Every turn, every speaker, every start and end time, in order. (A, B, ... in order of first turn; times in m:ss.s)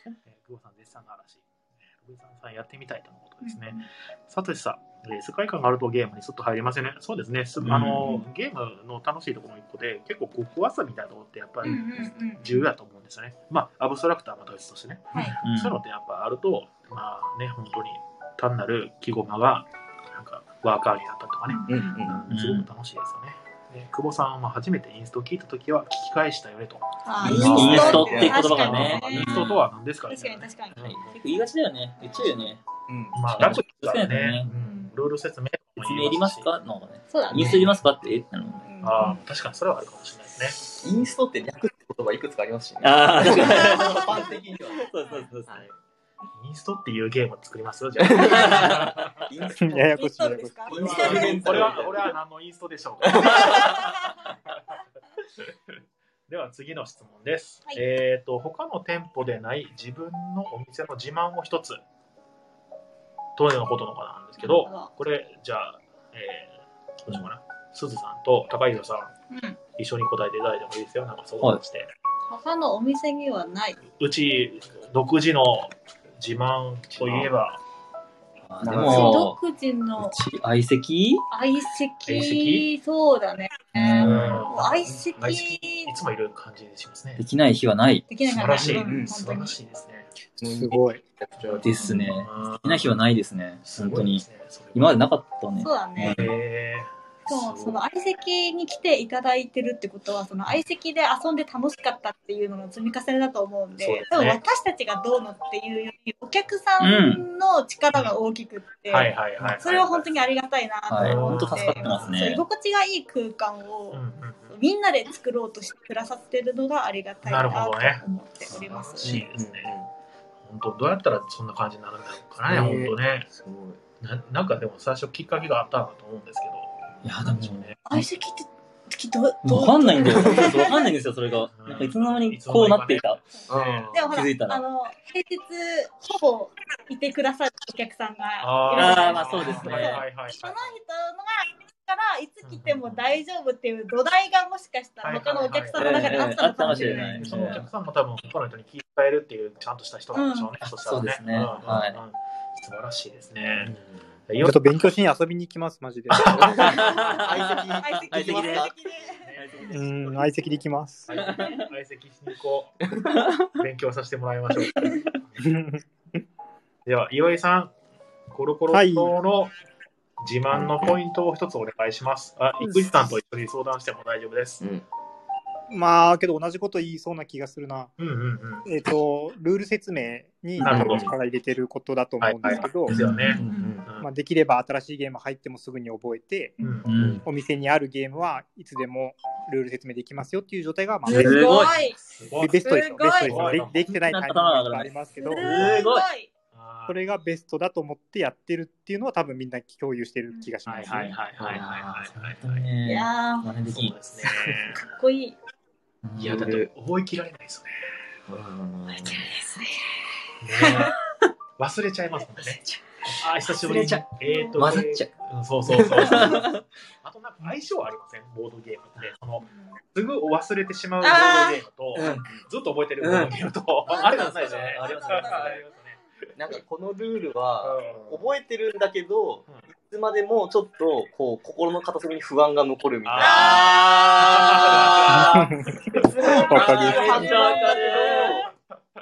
0:00.3-0:01.4 A
0:01.9-0:31.2 A
0:03.4-0:03.8 B
0:07.6-0:08.1 C
0:11.6-0:12.6 B
0:15.4-0:15.8 C
0:21.5-0:22.1 B
0:21.6-0:22.3 D
0:22.3-0:22.7 C
0:27.0-0:29.5 B
0:27.2-0:29.1 D
0:27.2-0:29.6 C
0:30.1-0:31.0 B
0:31.0-0:32.6 C
0:32.9-0:33.2 D
0:33.1-0:36.5 A
0:33.2-0:34.5 C
0:34.6-0:34.9 B
0:35.8-0:38.7 C
0:37.1-0:37.6 B
0:37.3-0:37.6 A
0:38.6-0:39.2 B
0:38.8-0:40.6 A
0:40.7-0:44.9 D
0:42.8-0:45.7 C
0:43.2-0:45.3 B
0:46.3-0:49.3 A
0:48.0-0:49.9 D
0:48.2-0:48.9 B
0:48.4-0:48.8 C
0:49.6-0:51.1 E
0:49.8-0:51.7 B
0:50.7-0:52.1 D
0:50.7-0:53.9 A
0:53.0-0:53.7 D
0:53.4-0:54.2 B
0:56.3-1:01.8 A
1:03.4-1:09.1 A
1:04.4-1:04.9 B
1:09.3-1:09.6 B
1:09.8-1:11.9 A
1:12.3-1:13.8 B
1:14.0-1:17.6 A
1:18.4-1:19.4 C
1:18.6-1:19.3 D
1:18.8-1:20.2 B
1:20.0-1:21.2 C
1:21.3-1:25.9 B
1:22.0-1:22.7 A
1:23.7-1:24.5 C
1:23.9-1:27.2 A
1:24.8-1:25.1 D
1:27.2-1:28.1 C
1:28.1-1:29.5 B
1:28.2-1:30.1 A
1:28.6-1:29.1 D
1:30.4-1:32.1 D
1:30.4-1:31.0 E
1:31.5-1:36.3 C
1:32.2-1:32.9 A
1:33.6-1:35.0 A
1:35.6-1:36.3 B
1:36.0-1:37.8 A
1:37.3-1:59.1 B
1:43.8-1:44.4 A
1:46.8-1:47.2 C
1:48.9-1:50.3 A
1:50.9-1:52.4 C
1:51.0-1:52.2 A
1:53.9-1:54.5 A
1:57.2-1:59.7 A
1:58.5-1:59.3 C
1:59.3-1:59.9 D
2:00.4-2:03.3 A
2:02.4-2:03.8 D
2:04.0-2:07.8 A
2:07.0-2:08.0 C
2:07.9-2:10.9 B
2:09.4-2:13.2 C
2:10.2-2:10.5 D
2:11.6-2:14.0 A
2:13.5-2:14.1 D
2:13.9-2:27.7 B
2:14.1-2:14.6 C
2:18.4-2:20.8 A
2:18.7-2:20.0 C
2:22.4-2:23.2 A
2:25.0-2:33.7 A
2:25.8-2:27.6 C
2:30.1-2:30.5 B
2:30.8-2:32.0 C
2:33.6-2:34.0 D
2:34.3-2:34.6 A
2:34.4-2:36.5 E
2:36.1-2:36.9 A
2:36.4-2:38.7 D
2:36.6-2:38.7 C
2:36.6-2:39.3 B
2:39.1-2:39.6 A
2:39.3-2:40.2 C
2:39.6-2:41.1 E
2:41.1-2:42.8 A
2:41.1-2:41.7 C
2:42.8-2:43.3 D
2:43.5-2:45.5 A
2:44.6-2:45.2 B
2:45.4-2:45.8 E
2:46.8-2:47.7 A
2:48.3-2:49.5 A
2:48.7-2:49.1 E
2:50.2-2:54.6 A
2:50.5-2:50.9 D
2:55.7-2:57.9 E
2:58.0-2:58.7 A
2:58.6-3:02.9 E
3:00.6-3:01.1 A
3:00.6-3:01.1 D
3:02.2-3:04.1 A
3:02.9-3:03.4 C
3:03.2-3:03.9 D
3:03.2-3:03.7 B
3:04.0-3:06.6 E
3:06.6-3:06.9 A
3:06.8-3:07.2 C
3:06.9-3:07.2 D
3:07.2-3:11.7 E
3:11.0-3:11.8 C
3:11.0-3:12.0 B
3:11.6-3:13.9 A
3:12.4-3:15.4 E
3:12.6-3:13.7 B
3:13.9-3:16.1 C
3:15.2-3:16.3 B
3:15.5-3:15.8 A
3:16.5-3:17.0 A
3:16.9-3:21.2 E
3:20.6-3:22.6 A
3:21.4-3:21.7 D
3:21.5-3:24.0 C
3:22.8-3:23.5 B
3:23.7-3:24.8 A
3:24.2-3:24.6 D
3:24.8-3:25.3 B
3:26.0-3:26.5 C
3:26.2-3:26.7 D
3:26.2-3:27.9 A
3:28.3-3:29.3 D
3:28.9-3:31.0 B
3:30.4-3:30.9 A
3:31.6-3:46.0 A
3:33.1-3:34.0 D
3:34.2-3:34.5 B
3:34.5-3:35.1 D
3:35.7-3:36.2 D
3:36.1-3:36.4 B
3:36.1-3:36.6 C
3:39.4-3:39.8 B
3:41.0-3:42.2 B
3:42.0-3:42.4 D
3:43.0-3:43.3 C
3:43.9-3:45.7 B
3:43.9-3:45.6 C
3:46.4-3:53.7 D
3:47.6-3:48.3 A
3:53.0-3:53.6 A
3:53.2-3:54.7 B
3:53.3-3:55.5 C
3:54.2-3:55.4 A
3:54.4-3:58.5 D
3:55.1-3:57.1 E
3:56.2-3:58.5 B
3:56.5-3:58.4 C